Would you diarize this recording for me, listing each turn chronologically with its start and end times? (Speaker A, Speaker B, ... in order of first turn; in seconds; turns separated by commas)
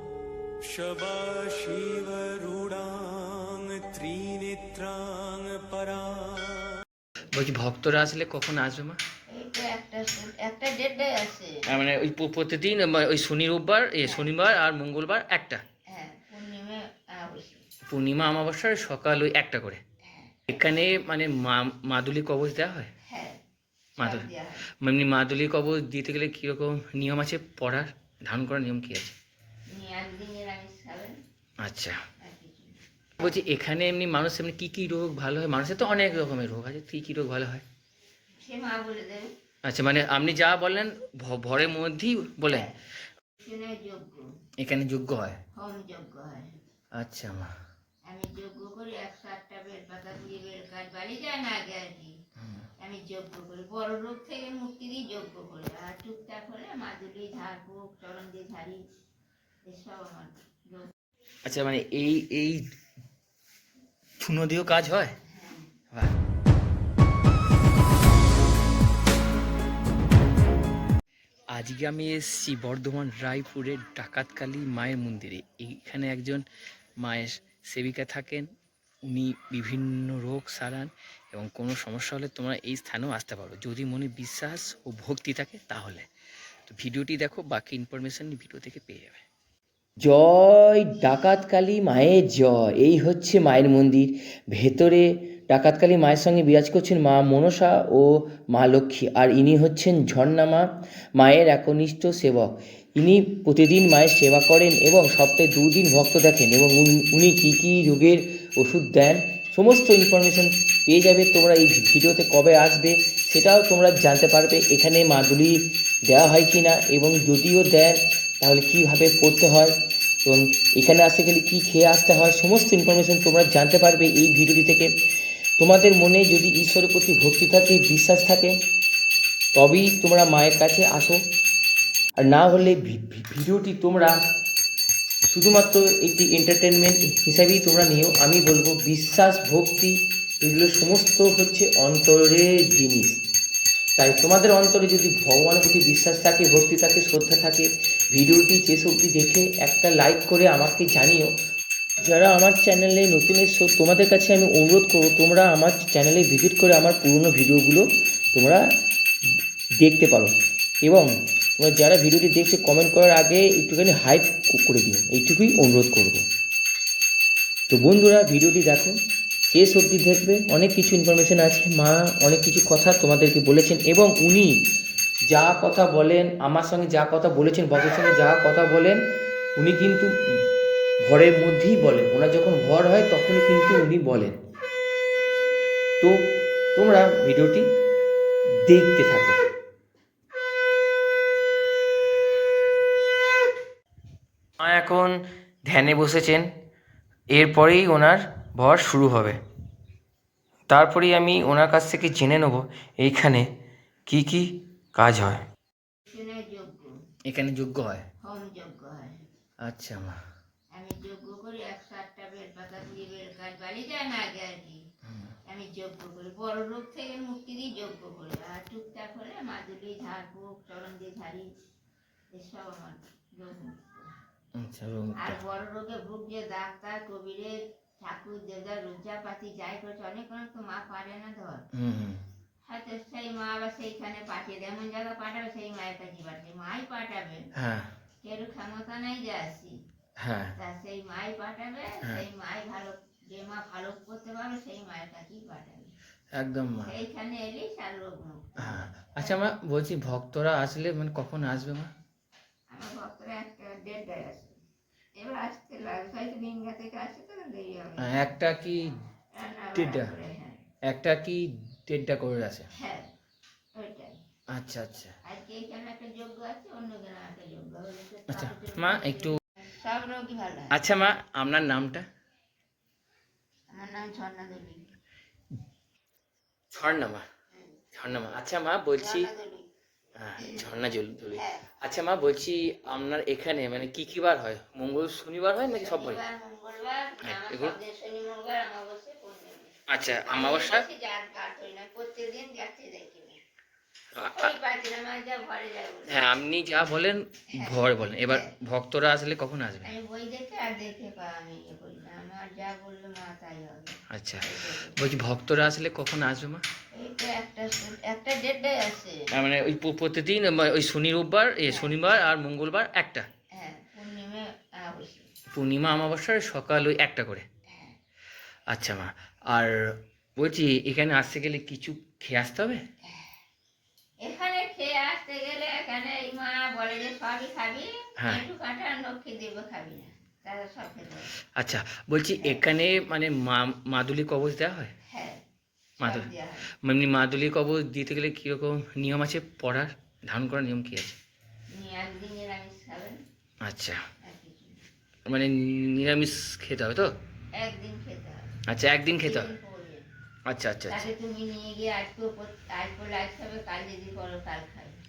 Speaker A: 0.6-6.8, Speaker B: 7.3-9.0, Speaker C: 9.3-11.6, Speaker B: 11.7-15.6, Speaker C: 14.0-14.3, Speaker C: 15.9-17.6, Speaker B: 17.9-19.8, Speaker C: 20.0-20.4, Speaker B: 20.5-22.9, Speaker C: 23.0-23.4, Speaker B: 24.0-29.1, Speaker C: 24.0-24.6, Speaker C: 29.7-31.1, Speaker B: 31.6-32.0, Speaker C: 32.2-32.8, Speaker B: 33.2-37.6, Speaker C: 38.4-39.3, Speaker B: 39.6-42.7, Speaker C: 42.5-42.7, Speaker C: 43.4-44.3, Speaker B: 44.6-45.4, Speaker C: 45.5-46.5, Speaker B: 47.0-47.5, Speaker C: 48.1-52.1, Speaker B: 52.4-52.7, Speaker C: 52.8-58.8, Speaker C: 59.6-60.9, Speaker B: 61.4-62.7, Speaker B: 64.2-65.1, Speaker C: 65.3-65.7, Speaker B: 71.5-76.4, Speaker B: 77.0-78.5, Speaker B: 79.0-86.1, Speaker B: 86.7-89.2, Speaker B: 90.0-119.7, Speaker B: 120.2-124.9, Speaker B: 125.6-128.6, Speaker B: 129.5-131.2, Speaker B: 132.2-134.1, Speaker B: 135.3-143.2, Speaker B: 143.9-151.3, Speaker B: 152.0-158.6, Speaker B: 159.8-166.2, Speaker B: 167.7-168.9, Speaker B: 169.5-174.5, Speaker B: 175.3-179.0, Speaker B: 179.6-180.1, Speaker B: 181.0-184.3, Speaker B: 186.7-187.7, Speaker B: 188.6-189.4, Speaker B: 194.6-196.5, Speaker B: 197.3-199.4, Speaker B: 200.7-203.4, Speaker B: 204.1-205.4, Speaker C: 206.1-206.9, Speaker B: 207.3-208.1, Speaker C: 208.2-209.2, Speaker B: 209.6-210.2, Speaker C: 210.7-214.8, Speaker B: 215.1-215.3, Speaker C: 215.5-221.5, Speaker C: 222.3-224.1, Speaker B: 224.6-225.4, Speaker C: 225.2-231.6, Speaker B: 231.7-232.2, Speaker C: 232.7-237.4, Speaker B: 237.6-237.9, Speaker C: 238.2-239.7, Speaker B: 240.2-240.5, Speaker C: 240.6-245.9, Speaker B: 246.3-246.9, Speaker C: 246.8-249.4, Speaker B: 248.6-251.9, Speaker C: 252.7-254.6, Speaker C: 255.2-258.3, Speaker B: 258.0-258.9, Speaker C: 259.3-260.6, Speaker B: 259.7-260.1, Speaker B: 260.9-262.7, Speaker C: 262.7-263.1, Speaker C: 263.7-264.2, Speaker B: 264.5-265.1, Speaker C: 265.2-270.8, Speaker B: 268.3-269.4, Speaker B: 270.7-272.1, Speaker C: 273.7-274.8, Speaker B: 276.7-277.2, Speaker C: 277.5-277.8, Speaker B: 277.9-279.3, Speaker C: 279.0-279.7, Speaker B: 280.1-286.2, Speaker C: 280.4-280.7, Speaker C: 281.4-281.7, Speaker C: 285.7-293.4, Speaker B: 287.2-287.8, Speaker B: 289.9-290.9, Speaker B: 294.1-294.5, Speaker C: 294.3-296.2, Speaker B: 296.1-299.9, Speaker C: 297.5-298.5, Speaker C: 299.8-305.0, Speaker B: 304.1-306.6, Speaker C: 306.9-309.2, Speaker B: 309.3-313.2, Speaker C: 311.7-311.9, Speaker C: 313.5-315.3, Speaker B: 315.5-317.4, Speaker C: 317.7-317.9, Speaker B: 318.7-322.8, Speaker C: 324.2-331.3, Speaker B: 328.2-328.4, Speaker B: 331.6-334.9, Speaker C: 335.1-335.4, Speaker B: 336.0-336.3, Speaker C: 336.0-336.7, Speaker B: 336.8-341.2, Speaker C: 341.7-343.2, Speaker B: 343.6-344.0, Speaker C: 344.2-344.8, Speaker B: 345.3-347.1, Speaker C: 347.5-348.6, Speaker B: 348.7-349.5, Speaker C: 349.2-350.0, Speaker B: 350.5-351.1, Speaker C: 350.9-355.0